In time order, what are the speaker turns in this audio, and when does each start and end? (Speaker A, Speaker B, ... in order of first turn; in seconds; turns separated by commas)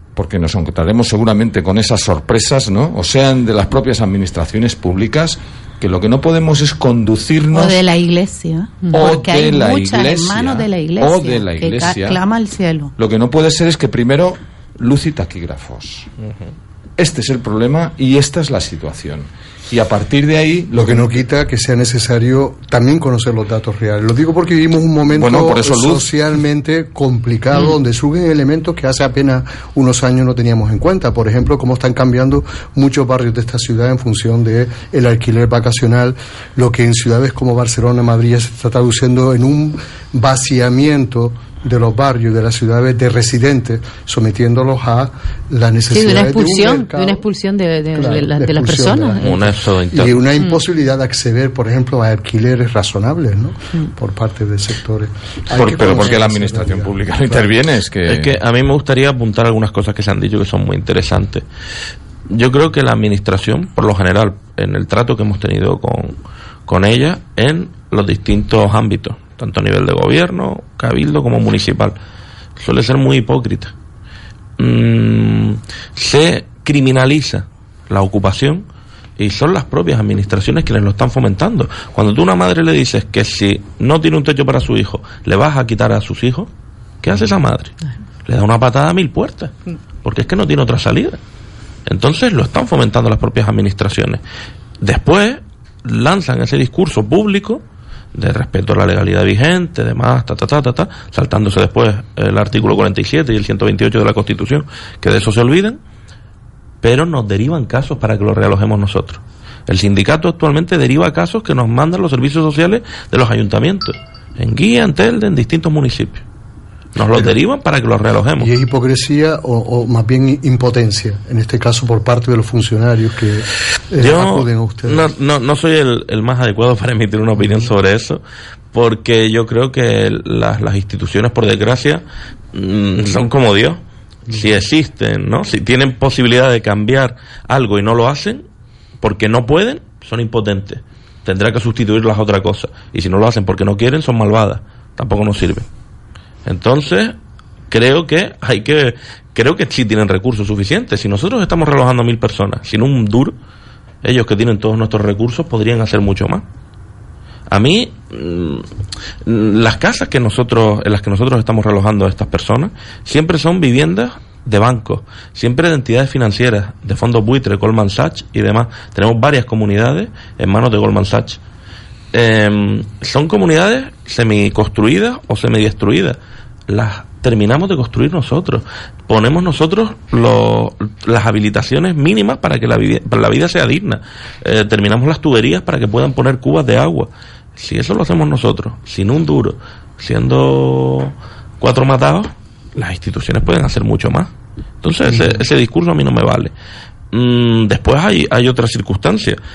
Speaker A: 0.2-7.8, Speaker B: 7.5-12.9, Speaker A: 8.9-12.2, Speaker A: 13.0-16.1, Speaker A: 17.0-21.1, Speaker C: 20.7-47.2, Speaker A: 25.1-26.1, Speaker D: 45.9-49.2, Speaker C: 47.9-57.5, Speaker E: 49.2-50.2, Speaker A: 55.5-58.4, Speaker E: 58.1-61.4, Speaker E: 62.3-66.2, Speaker E: 66.7-72.0, Speaker E: 72.6-73.7, Speaker E: 74.6-78.7, Speaker E: 79.2-86.5, Speaker E: 87.0-89.5, Speaker E: 90.0-91.2, Speaker E: 91.9-94.2, Speaker E: 94.8-97.6, Speaker E: 98.1-105.8, Speaker E: 106.8-116.2, Speaker E: 117.0-118.5, Speaker C: 118.4-125.1, Speaker E: 124.0-128.2, Speaker E: 128.7-138.4, Speaker C: 134.3-134.5, Speaker E: 139.0-145.7, Speaker E: 146.5-147.2, Speaker E: 147.7-153.3, Speaker E: 154.0-156.4, Speaker E: 157.5-158.7, Speaker E: 159.2-171.4, Speaker E: 172.1-176.2, Speaker E: 176.7-194.3, Speaker E: 194.8-196.5, Speaker C: 195.1-195.4, Speaker E: 197.1-199.4